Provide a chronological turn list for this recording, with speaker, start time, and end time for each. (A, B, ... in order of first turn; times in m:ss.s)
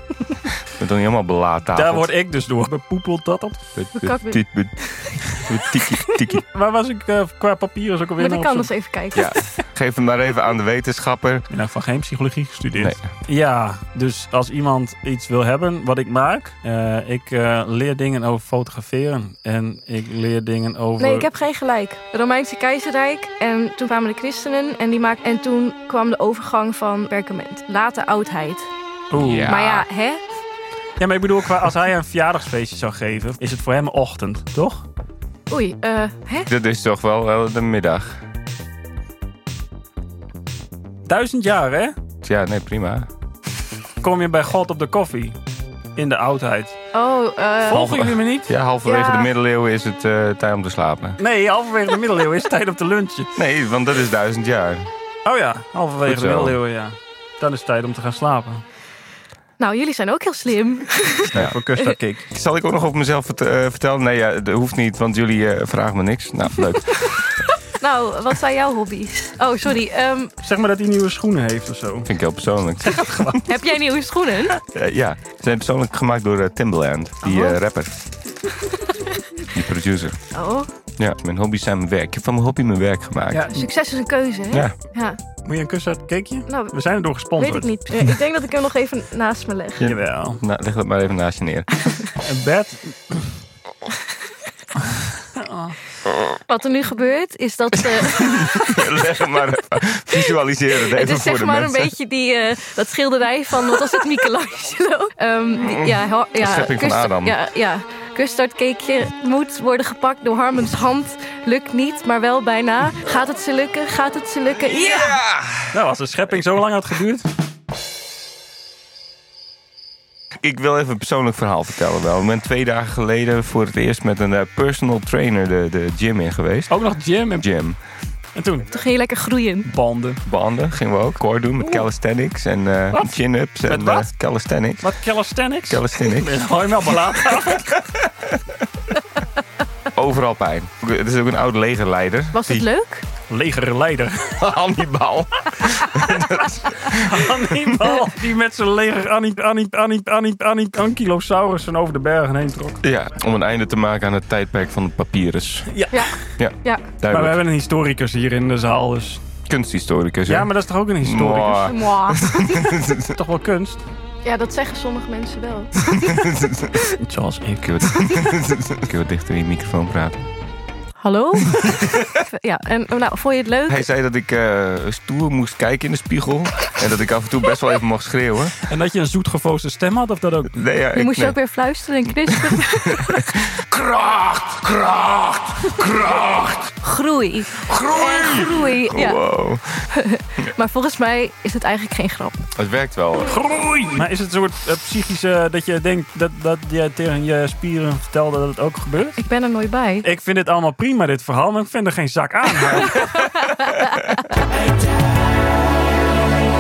0:00.7-0:02.1 A
0:01.7-0:03.7 B
0:03.8-0:06.4 A
0:04.0-0:05.3 C
0:06.4-0:08.7 B
0:08.2-0:09.5 C
0:09.1-0:11.5 A
0:11.5-0:21.3 B
0:12.8-0:13.0 A
0:21.0-0:28.7 C
0:29.1-0:29.6 B
0:29.1-0:29.9 A
0:29.4-0:30.2 C
0:31.0-0:34.8 B
0:35.5-0:36.5 C
0:36.5-0:38.2 A
0:41.1-0:41.9 B
0:42.2-0:43.1 A
0:44.0-0:45.4 B
0:46.0-0:46.8 B
0:46.9-0:47.9 C
0:47.6-0:48.5 B
0:47.7-0:51.2 A
0:48.8-0:49.3 C
0:51.2-0:53.3 B
0:53.4-0:54.9 A
0:55.2-0:58.6 B
0:56.1-0:56.6 A
0:59.6-1:02.0 C
1:01.2-1:02.2 B
1:02.3-1:07.4 A
1:07.1-1:10.3 C
1:10.4-1:12.1 B
1:12.1-1:13.3 A
1:12.8-1:13.6 B
1:13.4-1:14.6 C
1:14.7-1:17.9 A
1:17.2-1:17.6 C
1:18.6-1:19.2 C
1:19.5-1:20.2 A
1:20.3-1:20.7 C
1:21.0-1:23.5 A
1:23.3-1:23.7 B
1:23.5-1:25.2 C
1:25.4-1:27.7 B
1:26.5-1:26.8 C
1:27.4-1:29.9 C
1:29.8-1:31.8 A
1:29.8-1:30.4 B
1:32.2-1:33.4 B
1:35.2-1:35.8 B
1:36.5-1:38.9 C
1:38.0-1:41.9 A
1:40.8-1:55.2 C
1:45.6-1:47.4 A
1:54.7-1:55.8 A
1:55.7-1:57.3 B
2:00.4-2:06.7 A
2:06.7-2:07.5 B
2:07.4-2:07.8 A
2:08.4-2:08.7 B
2:08.7-2:09.7 C
2:09.7-2:10.2 B
2:10.2-2:14.8 A
2:12.9-2:14.1 B
2:14.8-2:17.8 B
2:15.7-2:16.4 A
2:17.4-2:18.5 A
2:19.9-2:22.7 A
2:22.3-2:23.0 C
2:23.3-2:24.4 B
2:24.4-2:27.5 A
2:26.9-2:32.8 B
2:32.8-2:35.7 A
2:35.7-2:36.1 B
2:35.9-2:36.8 C
2:36.4-2:37.4 A
2:37.1-2:39.2 B
2:39.5-2:43.2 A
2:40.3-2:41.8 B
2:41.7-2:42.7 C
2:43.2-2:43.8 B
2:44.2-2:46.1 C
2:45.9-2:46.8 A
2:47.0-2:48.0 B
2:47.6-2:50.2 A
2:51.0-2:53.8 C
2:53.7-2:58.6 A
2:58.6-3:00.6 B
3:00.6-3:01.4 A
3:01.0-3:03.3 C
3:02.5-3:06.7 A
3:06.8-3:09.2 C
3:07.6-3:09.9 A
3:09.8-3:12.5 C
3:12.6-3:13.4 A
3:13.3-3:19.2 B
3:19.2-3:20.1 C
3:20.0-3:23.2 B
3:23.0-3:24.2 C